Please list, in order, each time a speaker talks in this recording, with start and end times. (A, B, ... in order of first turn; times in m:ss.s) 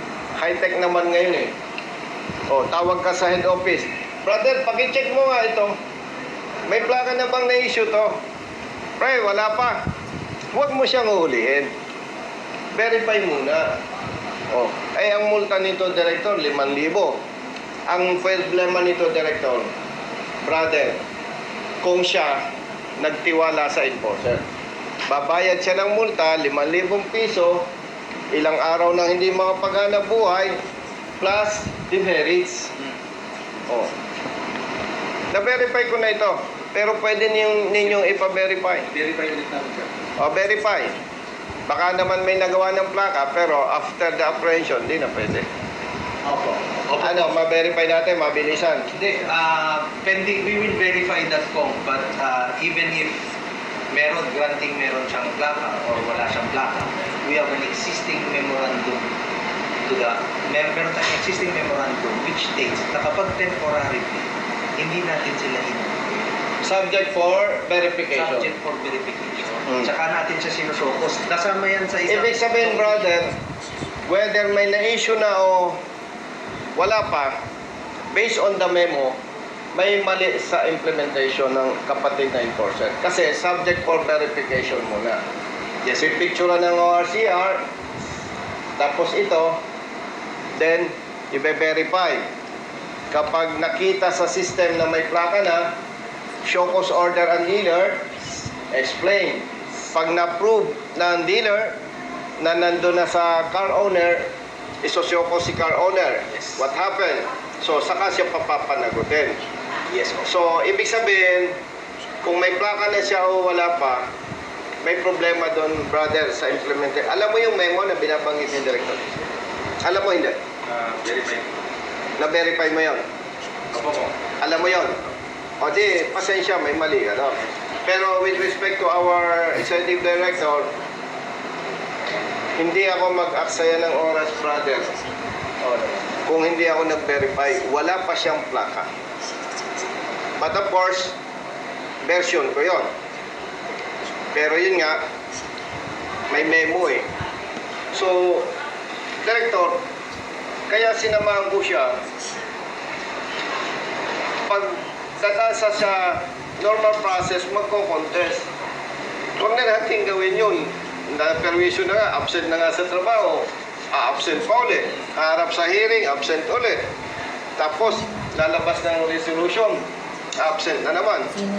0:00.4-0:01.5 A
0:02.5-0:05.7 A
0:06.7-0:08.2 A
0:09.0-0:09.8 A
0:10.5-0:11.7 A
0:12.7-0:13.6 A
0:14.6-0:17.1 A
0:17.9-0:19.7 A
0:20.4-0:21.0 A
0:21.8-0:22.4 A
0:23.0-0:24.4 A
0:25.1-0:27.6 A
0:28.3-0:30.6 A
0:31.2-0:32.7 A
0:35.3-0:38.9 A
0:38.9-0:39.9 B
0:40.2-0:41.0 A
0:41.7-0:45.4 A
0:46.2-0:47.3 C
0:47.0-0:48.9 A
0:48.9-0:53.2 C
0:53.9-0:59.1 C
0:59.8-1:04.2 C
1:04.8-1:06.0 C
1:06.6-1:08.5 A
1:08.1-1:13.0 C
1:12.1-1:13.3 A
1:14.1-1:15.8 A
1:16.8-1:17.3 A
1:18.1-1:19.1 A
1:19.7-1:25.2 A
1:25.8-1:26.2 C
1:26.0-1:27.6 A
1:28.8-1:29.6 A
1:30.6-1:32.2 A
1:33.1-1:35.7 A
1:36.4-1:38.0 A
1:38.7-1:41.8 A
1:42.4-1:44.2 A
1:44.8-1:49.4 A
1:50.2-1:51.5 A
1:52.2-1:54.0 A
1:54.8-1:59.0 A
1:59.8-2:00.4 A
2:00.7-2:01.4 B
2:02.2-2:03.0 A
2:03.7-2:04.1 B
2:04.4-2:05.0 A
2:05.6-2:10.7 A
2:12.6-2:14.9 A
2:15.6-2:16.0 C
2:16.2-2:18.9 A
2:20.4-2:21.2 A
2:22.0-2:22.9 A
2:24.3-2:25.0 A
2:26.3-2:27.1 A
2:27.9-2:28.5 A
2:29.2-2:29.8 A
2:30.7-2:32.0 A
2:34.5-2:38.5 A
2:39.4-2:46.9 A
2:47.6-2:49.8 A
2:50.4-2:51.3 A